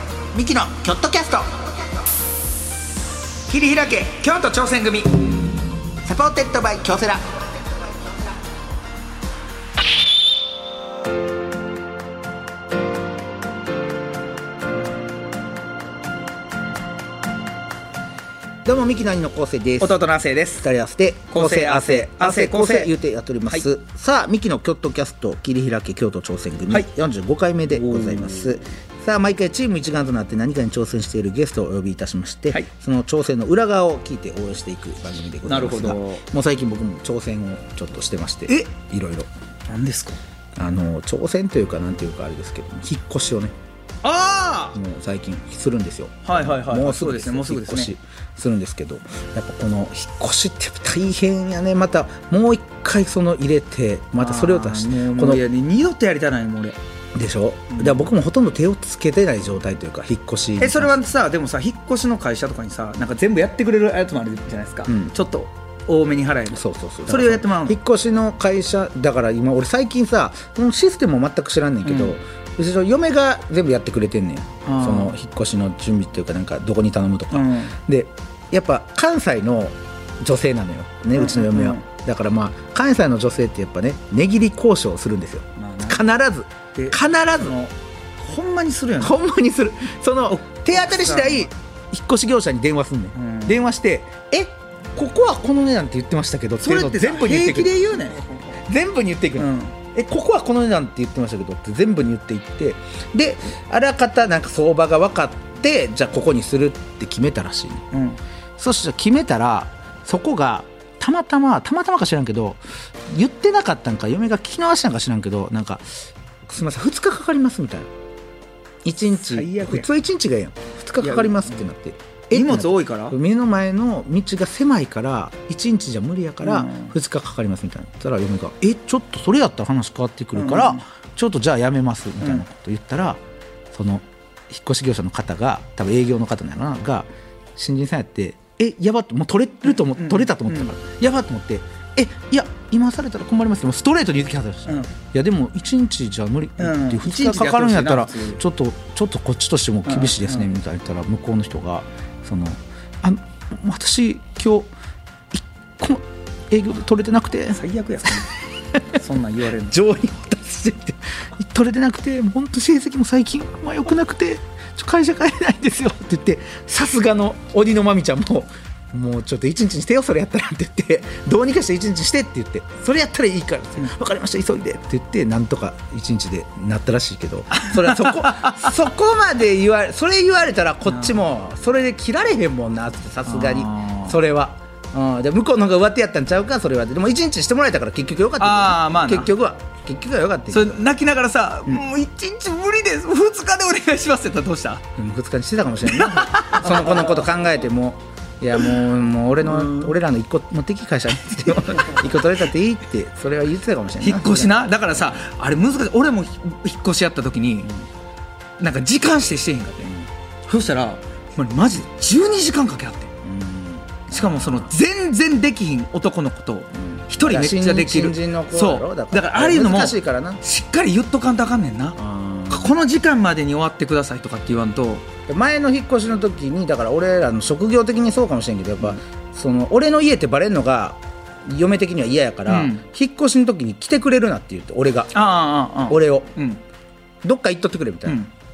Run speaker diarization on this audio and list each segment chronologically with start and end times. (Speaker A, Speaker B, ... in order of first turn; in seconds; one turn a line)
Speaker A: 0.3-1.6
Speaker B: 3.5-5.3
Speaker A: 6.0-7.3
Speaker A: 18.6-20.0
Speaker B: 19.8-20.6
Speaker A: 20.6-39.3
Speaker B: 21.3-22.9
Speaker B: 27.7-28.5
Speaker B: 35.4-36.2
Speaker B: 39.7-40.2
Speaker A: 40.6-43.5
Speaker B: 44.0-44.8
Speaker A: 44.7-55.4
Speaker B: 46.2-47.9
Speaker B: 54.2-56.8
Speaker A: 57.1-61.0
Speaker B: 57.7-58.1
Speaker B: 60.6-67.8
Speaker A: 64.9-65.1
Speaker A: 66.5-87.5
Speaker B: 71.8-72.2
Speaker B: 74.7-75.1
Speaker B: 77.3-77.7
Speaker B: 81.2-81.8
Speaker B: 85.6-86.1
Speaker B: 86.7-89.2
Speaker A: 89.0-97.7
Speaker B: 90.3-91.5
Speaker B: 93.2-93.6
Speaker B: 96.6-98.6
Speaker A: 98.6-107.8
Speaker B: 99.4-99.7
Speaker B: 107.9-108.2
Speaker A: 108.6-115.9
Speaker A: 116.5-117.9
Speaker A: 118.8-133.2
Speaker B: 119.2-119.9
Speaker B: 121.0-121.6
Speaker B: 122.3-123.1
Speaker B: 126.4-126.9
Speaker B: 130.3-130.8
Speaker A: 133.7-154.7
Speaker B: 139.7-140.7
Speaker B: 146.6-148.4
Speaker B: 149.8-150.5
Speaker A: 155.3-157.6
Speaker B: 157.5-158.3
Speaker B: 158.9-159.7
Speaker A: 159.7-190.8
Speaker B: 177.8-178.6
Speaker B: 180.9-181.2
Speaker B: 183.2-184.2
Speaker B: 188.4-189.3
Speaker B: 190.5-194.8
Speaker A: 195.0-204.6
Speaker B: 195.8-197.2
Speaker B: 199.5-199.9
Speaker B: 204.0-207.7
Speaker B: 208.6-209.9
Speaker B: 210.5-213.1
Speaker A: 213.2-214.7
Speaker B: 214.1-222.0
Speaker A: 216.8-220.4
Speaker A: 222.0-222.7
Speaker B: 222.5-225.1
Speaker A: 225.3-235.2
Speaker B: 232.5-232.8
Speaker B: 235.1-236.6
Speaker A: 235.9-236.3
Speaker A: 237.2-238.2